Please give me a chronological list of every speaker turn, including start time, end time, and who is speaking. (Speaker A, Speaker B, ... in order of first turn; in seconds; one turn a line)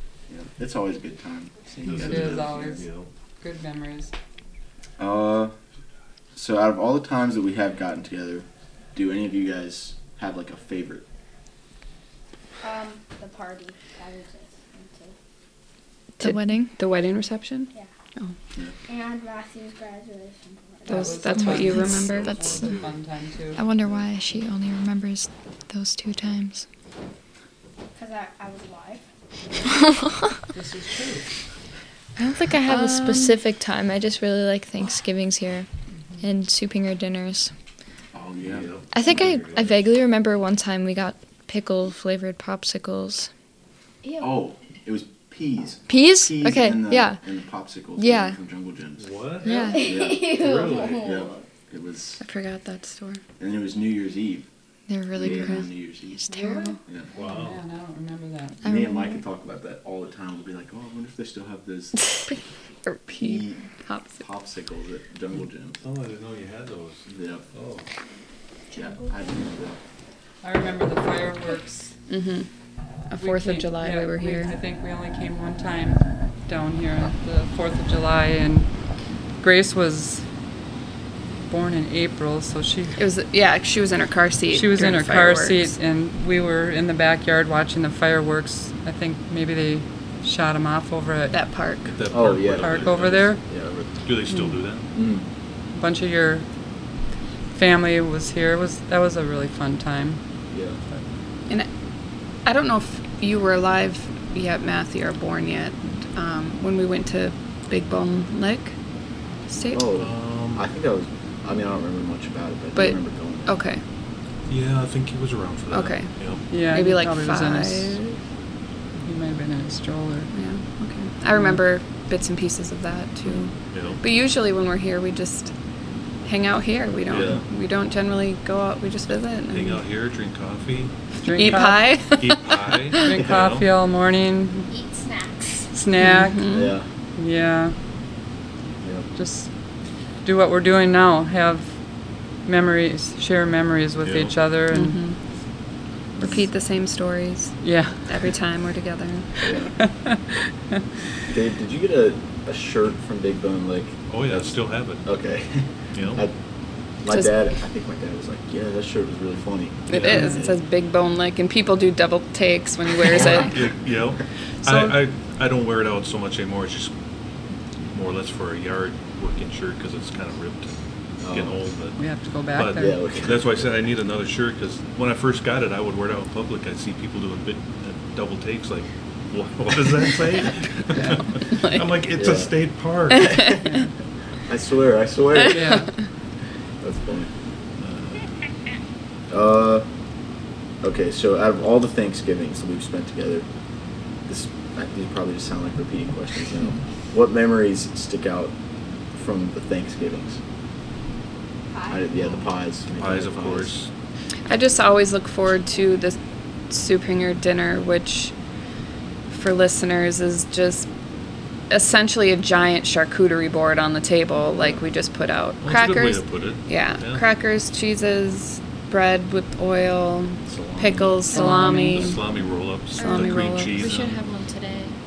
Speaker A: 0.3-2.8
Speaker B: 1.8-3.1
Speaker C: 1.9-2.9
Speaker C: 3.4-4.1
Speaker A: 5.0-5.5
Speaker A: 6.3-11.1
Speaker D: 12.6-15.2
Speaker E: 16.2-16.7
Speaker F: 16.2-18.3
Speaker D: 18.9-21.3
Speaker F: 20.9-22.6
Speaker C: 20.9-23.6
Speaker E: 21.4-22.6
Speaker B: 21.8-22.9
Speaker E: 23.6-26.6
Speaker D: 27.9-29.1
Speaker C: 30.5-31.2
Speaker E: 32.2-35.7
Speaker F: 32.8-33.1
Speaker E: 36.2-37.5
Speaker A: 38.1-38.7
Speaker B: 38.4-39.8
Speaker E: 38.9-43.3
Speaker D: 44.0-44.3
Speaker A: 44.2-49.0
Speaker E: 45.9-47.2
Speaker E: 48.0-48.4
Speaker B: 49.0-51.1
Speaker E: 49.4-49.9
Speaker D: 49.4-51.4
Speaker A: 49.6-50.4
Speaker A: 51.0-52.2
Speaker F: 52.2-53.2
Speaker A: 53.4-54.5
Speaker E: 54.9-56.8
Speaker A: 55.1-56.3
Speaker C: 56.6-58.6
Speaker A: 56.9-57.1
Speaker B: 57.1-57.6
Speaker E: 58.6-59.2
Speaker A: 58.6-62.0
Speaker F: 62.9-64.2
Speaker A: 63.1-63.7
Speaker A: 64.2-65.8
Speaker B: 65.8-67.8
Speaker A: 67.1-67.4
Speaker D: 68.7-69.1
Speaker A: 68.7-69.8
Speaker C: 70.4-71.9
Speaker F: 72.1-72.5
Speaker F: 73.1-74.5
Speaker C: 73.2-78.7
Speaker C: 79.4-80.2
Speaker C: 81.5-83.0
Speaker F: 83.0-85.7
Speaker C: 84.5-91.4
Speaker F: 91.3-91.9
Speaker B: 91.9-93.3
Speaker A: 92.1-93.9
Speaker C: 92.6-93.4
Speaker B: 94.0-94.8
Speaker A: 94.9-95.2
Speaker C: 95.7-96.5
Speaker C: 97.5-100.2
Speaker A: 100.5-100.8
Speaker F: 102.4-108.7
Speaker F: 109.5-109.8
Speaker A: 109.7-113.6
Speaker B: 110.0-110.7
Speaker F: 112.8-113.8
Speaker B: 114.5-116.4
Speaker F: 115.7-118.2
Speaker C: 116.5-118.0
Speaker C: 119.0-120.3
Speaker F: 120.3-125.5
Speaker C: 121.3-121.6
Speaker B: 123.7-124.0
Speaker F: 126.2-129.8
Speaker B: 127.1-127.4
Speaker B: 129.5-133.7
Speaker C: 131.2-131.9
Speaker F: 131.3-133.0
Speaker C: 133.0-134.7
Speaker D: 134.7-135.7
Speaker C: 135.7-136.5
Speaker F: 136.0-136.7
Speaker A: 136.5-136.8
Speaker C: 137.2-137.7
Speaker A: 138.8-139.1
Speaker C: 139.2-139.5
Speaker C: 140.2-141.8
Speaker C: 142.4-145.0
Speaker B: 144.0-144.3
Speaker F: 144.7-145.2
Speaker F: 146.2-149.5
Speaker C: 147.6-148.0
Speaker A: 149.4-149.7
Speaker C: 149.8-150.2
Speaker A: 151.3-154.5
Speaker B: 154.1-155.0
Speaker A: 155.0-156.3
Speaker B: 155.9-156.2
Speaker A: 157.0-160.6
Speaker F: 159.9-163.6
Speaker B: 159.9-160.2
Speaker C: 160.1-160.4
Speaker B: 163.0-166.9
Speaker B: 167.9-172.0
Speaker A: 171.2-171.6
Speaker C: 172.0-173.0
Speaker B: 172.5-183.5
Speaker A: 172.8-173.5
Speaker F: 181.5-181.8
Speaker A: 182.1-182.5
Speaker A: 183.3-183.5
Speaker F: 183.3-183.5
Speaker C: 183.6-183.9
Speaker A: 184.4-185.9
Speaker C: 185.5-185.9
Speaker A: 186.8-187.3
Speaker B: 187.8-188.2
Speaker A: 189.3-189.9
Speaker A: 190.8-193.5
Speaker A: 194.2-198.5
Speaker A: 199.1-200.4
Speaker D: 201.7-202.0
Speaker A: 201.9-203.7
Speaker B: 202.2-203.9
Speaker F: 204.5-206.2
Speaker F: 206.7-208.3
Speaker F: 209.3-210.9
Speaker F: 211.7-222.2
Speaker B: 215.6-217.2
Speaker A: 220.4-221.3
Speaker C: 221.3-222.1
Speaker E: 221.3-221.8
Speaker B: 221.8-224.2
Speaker E: 223.0-225.0
Speaker F: 223.0-223.8